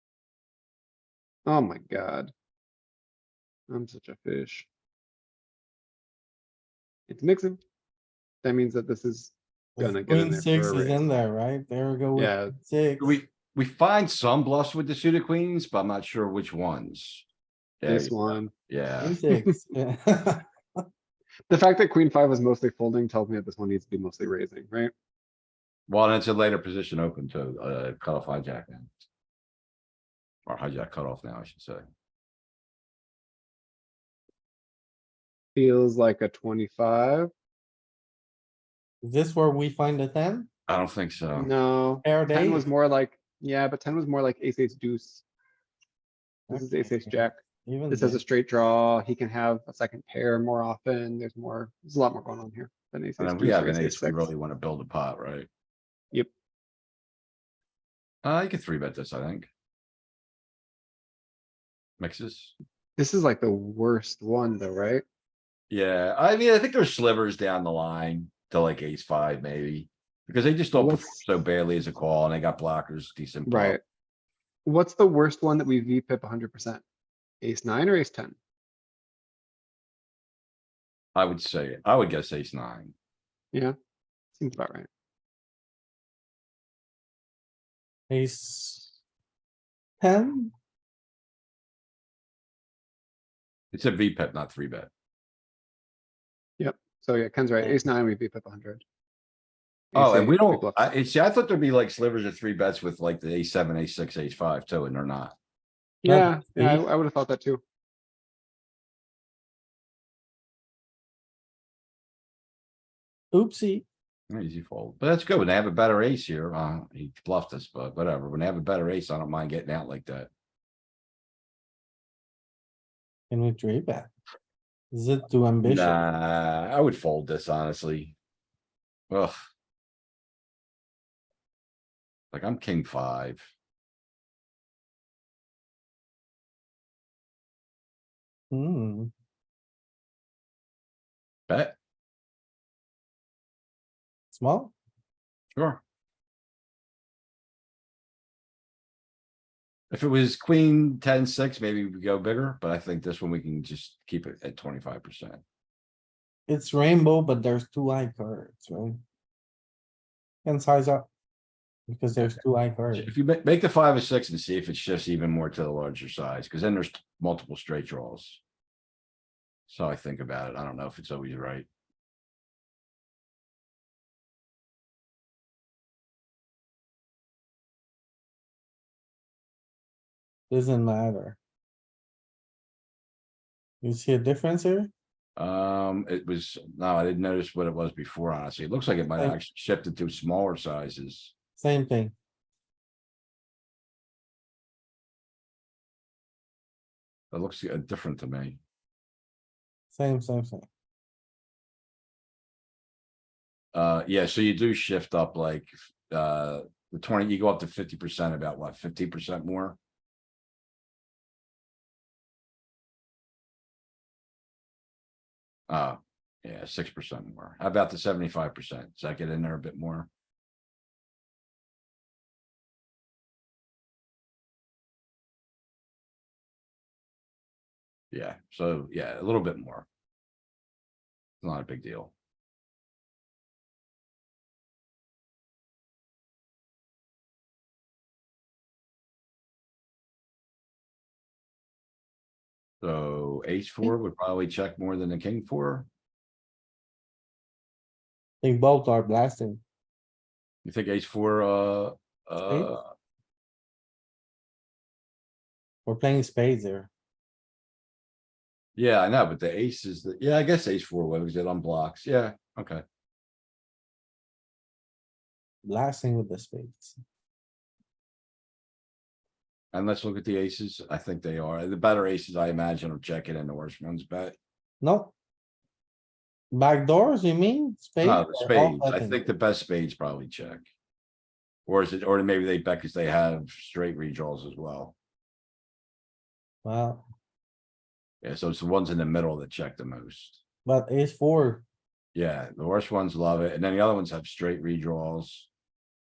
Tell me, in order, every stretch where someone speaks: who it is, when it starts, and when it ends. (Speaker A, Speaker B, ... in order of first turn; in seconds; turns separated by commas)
Speaker A: 1.4-2.3, Speaker A: 3.7-4.7, Speaker A: 7.1-7.6, Speaker A: 8.4-11.0, Speaker B: 9.8-13.1, Speaker A: 12.1-12.5, Speaker C: 13.0-17.2, Speaker C: 17.8-19.2, Speaker A: 17.9-18.5, Speaker B: 19.0-20.8, Speaker A: 21.5-24.9, Speaker C: 25.9-28.9, Speaker C: 30.4-31.8, Speaker A: 35.5-37.3, Speaker B: 39.0-40.5, Speaker C: 40.7-41.5, Speaker A: 41.3-45.2, Speaker B: 42.0-42.6, Speaker B: 46.5-48.2, Speaker A: 46.5-54.3, Speaker C: 53.2-55.5, Speaker C: 58.2-59.5, Speaker C: 62.0-62.5, Speaker A: 63.0-65.0, Speaker C: 65.7-73.8, Speaker A: 70.8-71.2, Speaker A: 73.5-73.8, Speaker A: 74.6-76.8, Speaker A: 77.4-78.4, Speaker C: 81.1-82.9, Speaker A: 84.3-84.9, Speaker B: 88.1-88.9, Speaker B: 90.0-90.5, Speaker C: 93.7-94.9, Speaker A: 96.6-98.8, Speaker A: 99.9-100.8, Speaker C: 99.9-105.4, Speaker A: 106.0-107.6, Speaker B: 106.0-106.8, Speaker B: 113.3-113.8, Speaker C: 114.3-120.3, Speaker B: 123.3-124.1, Speaker B: 124.9-126.0, Speaker C: 125.6-128.2, Speaker C: 132.3-133.5, Speaker B: 138.5-139.1, Speaker C: 141.5-141.8, Speaker B: 144.3-144.7, Speaker C: 145.6-145.8, Speaker C: 149.9-155.4, Speaker B: 156.5-159.0, Speaker B: 160.4-161.1, Speaker B: 161.9-163.1, Speaker C: 162.9-168.4, Speaker C: 169.7-171.7, Speaker B: 180.5-181.4, Speaker B: 183.8-184.9, Speaker C: 185.4-191.3, Speaker B: 191.6-192.1, Speaker C: 197.3-198.6, Speaker B: 199.9-200.7, Speaker C: 203.7-209.8, Speaker C: 215.7-220.1, Speaker C: 228.1-229.9, Speaker C: 231.4-232.1, Speaker C: 242.8-245.9, Speaker B: 248.4-249.6, Speaker C: 250.6-252.9, Speaker B: 255.9-256.9, Speaker C: 258.8-262.8, Speaker B: 265.6-267.0, Speaker C: 269.7-274.4, Speaker B: 274.8-275.1, Speaker B: 276.5-279.2, Speaker C: 278.0-280.7, Speaker C: 281.6-284.9, Speaker B: 286.6-287.1, Speaker C: 288.2-290.4, Speaker B: 290.6-291.6, Speaker C: 292.1-295.5